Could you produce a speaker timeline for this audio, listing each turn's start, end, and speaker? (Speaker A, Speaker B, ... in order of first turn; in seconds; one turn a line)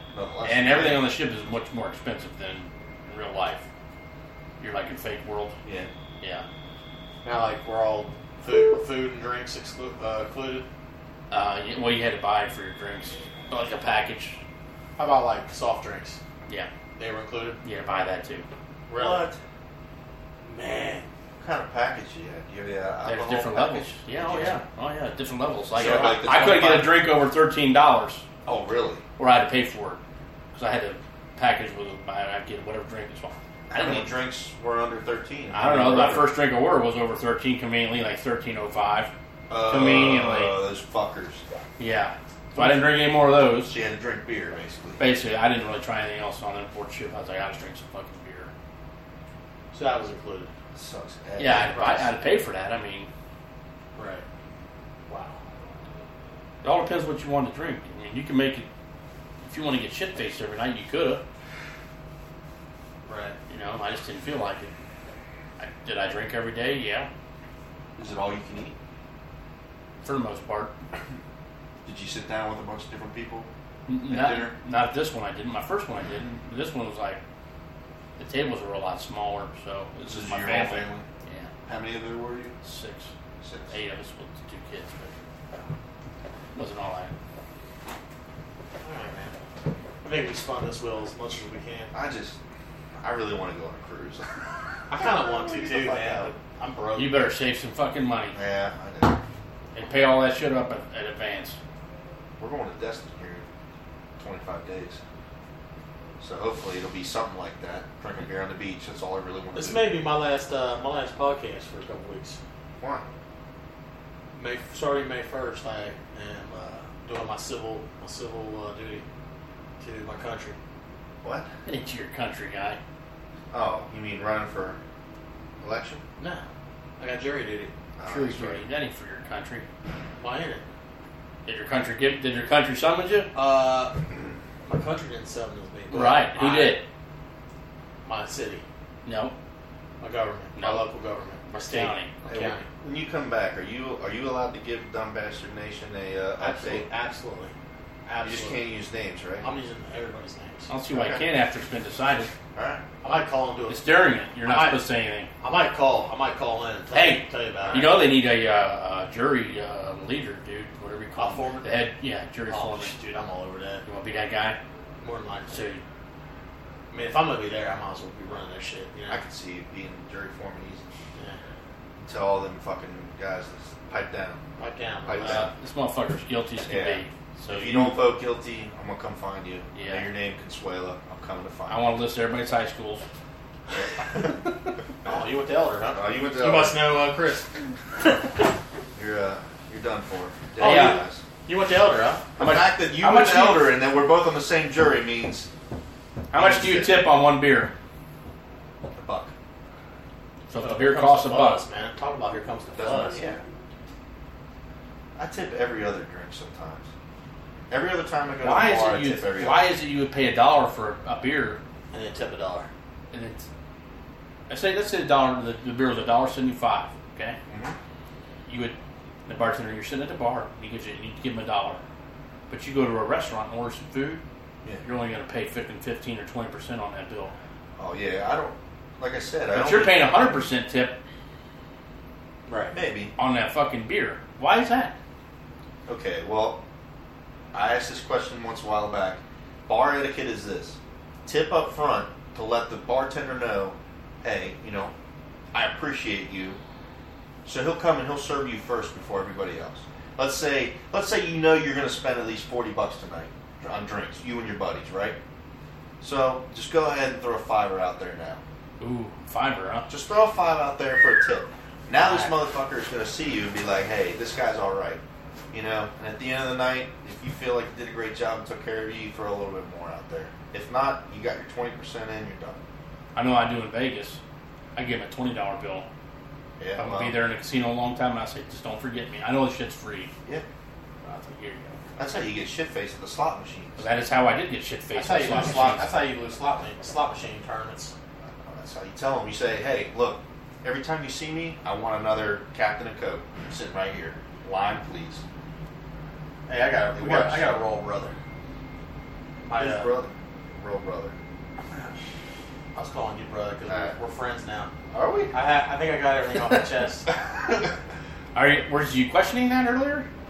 Speaker A: 0.1-1.1
Speaker B: 0.4-3.6
Speaker B: 4.6-5.5
Speaker C: 7.2-10.7
Speaker B: 11.3-14.4
Speaker C: 15.0-16.2
Speaker C: 17.0-17.6
Speaker B: 17.6-18.5
Speaker C: 18.9-19.2
Speaker A: 18.9-19.4
Speaker C: 20.4-21.1
Speaker A: 21.4-24.6
Speaker B: 23.1-28.2
Speaker C: 24.2-24.6
Speaker A: 25.7-27.0
Speaker C: 25.9-26.3
Speaker A: 28.5-29.0
Speaker B: 29.2-30.0
Speaker B: 30.5-34.1
Speaker A: 33.7-36.3
Speaker B: 35.5-39.1
Speaker A: 39.5-41.4
Speaker B: 39.7-40.6
Speaker B: 41.8-43.8
Speaker A: 43.7-45.0
Speaker B: 45.0-48.5
Speaker C: 49.7-50.5
Speaker A: 50.7-52.1
Speaker B: 51.4-53.1
Speaker C: 51.5-52.1
Speaker C: 54.0-54.2
Speaker C: 55.1-55.4
Speaker B: 56.6-58.7
Speaker B: 59.4-61.2
Speaker C: 63.0-63.4
Speaker B: 63.5-64.7
Speaker B: 65.6-67.1
Speaker A: 68.0-68.8
Speaker B: 70.0-70.7
Speaker A: 71.9-73.5
Speaker B: 73.9-77.2
Speaker A: 74.0-74.5
Speaker B: 78.2-81.5
Speaker A: 80.0-81.0
Speaker A: 81.7-82.6
Speaker B: 82.6-83.1
Speaker A: 83.4-83.8
Speaker B: 83.7-85.1
Speaker B: 86.5-87.1
Speaker C: 88.8-89.3
Speaker C: 90.0-91.9
Speaker A: 91.9-92.4
Speaker A: 93.0-94.4
Speaker C: 94.9-97.3
Speaker A: 94.9-96.4
Speaker B: 97.0-98.4
Speaker A: 98.3-99.2
Speaker B: 99.8-101.6
Speaker A: 102.4-103.5
Speaker A: 104.2-105.0
Speaker A: 106.2-110.0
Speaker C: 109.5-112.4
Speaker A: 112.8-113.1
Speaker C: 114.4-119.0
Speaker C: 119.8-120.6
Speaker A: 121.2-121.5
Speaker B: 121.7-122.8
Speaker A: 123.5-124.8
Speaker A: 125.6-126.0
Speaker C: 126.2-126.4
Speaker C: 127.0-127.7
Speaker A: 128.0-128.6
Speaker B: 128.0-129.7
Speaker C: 130.2-130.6
Speaker B: 131.5-133.3
Speaker C: 133.3-134.0
Speaker C: 134.7-136.8
Speaker B: 135.9-136.8
Speaker C: 138.1-138.6
Speaker B: 139.1-139.3
Speaker C: 140.0-142.7
Speaker B: 140.6-140.9
Speaker B: 141.5-142.1
Speaker A: 142.3-146.9
Speaker C: 146.4-147.5
Speaker C: 148.1-148.6
Speaker A: 148.2-149.5
Speaker C: 149.4-150.7
Speaker B: 150.7-152.3
Speaker A: 150.9-151.2
Speaker A: 152.6-152.8
Speaker C: 153.0-153.9
Speaker B: 153.7-155.3
Speaker C: 154.4-154.8
Speaker C: 155.4-158.1
Speaker B: 156.9-162.9
Speaker C: 161.2-161.9
Speaker C: 162.5-163.8
Speaker B: 163.9-164.6
Speaker C: 165.0-165.7
Speaker B: 165.5-165.8
Speaker C: 166.9-169.2
Speaker A: 169.1-170.8
Speaker A: 172.0-174.4
Speaker C: 174.6-175.5
Speaker A: 175.1-175.5
Speaker B: 175.2-178.0
Speaker A: 176.6-181.9
Speaker B: 179.7-180.1
Speaker B: 181.7-183.0
Speaker A: 183.8-184.3
Speaker C: 185.1-187.5
Speaker A: 185.9-186.8
Speaker A: 188.9-191.2
Speaker B: 190.6-191.0
Speaker C: 190.6-192.3
Speaker A: 192.4-195.5
Speaker B: 192.4-193.7
Speaker B: 196.3-197.7
Speaker A: 196.3-197.1
Speaker A: 198.9-199.3
Speaker B: 200.5-201.6
Speaker C: 200.6-203.2
Speaker A: 202.8-203.4
Speaker A: 205.2-206.9
Speaker A: 207.7-209.7
Speaker B: 208.4-211.6
Speaker C: 211.9-212.7
Speaker B: 213.1-213.5
Speaker B: 214.5-217.4
Speaker A: 217.5-217.8
Speaker B: 218.5-218.8
Speaker B: 219.3-221.8
Speaker B: 222.5-224.2
Speaker B: 224.8-227.3
Speaker A: 227.8-230.4
Speaker B: 229.5-231.0
Speaker C: 232.5-232.7
Speaker A: 232.7-233.1
Speaker B: 233.2-234.9
Speaker A: 235.9-236.6
Speaker A: 237.5-244.9
Speaker A: 245.5-246.6
Speaker A: 247.4-255.2
Speaker A: 256.0-258.4
Speaker B: 258.8-259.9
Speaker A: 259.9-265.0
Speaker A: 265.5-272.6
Speaker B: 273.1-274.2
Speaker B: 274.8-275.9
Speaker A: 276.6-277.2
Speaker B: 276.8-280.1
Speaker B: 281.0-281.8
Speaker A: 282.0-283.9
Speaker B: 283.8-285.9
Speaker C: 284.9-287.9
Speaker A: 288.3-295.2
Speaker C: 296.5-298.1
Speaker A: 296.9-297.5
Speaker C: 299.4-299.9
Speaker A: 299.6-301.2
Speaker C: 302.8-304.7
Speaker A: 303.7-304.0
Speaker A: 304.9-305.3
Speaker C: 305.3-307.1
Speaker B: 308.4-310.1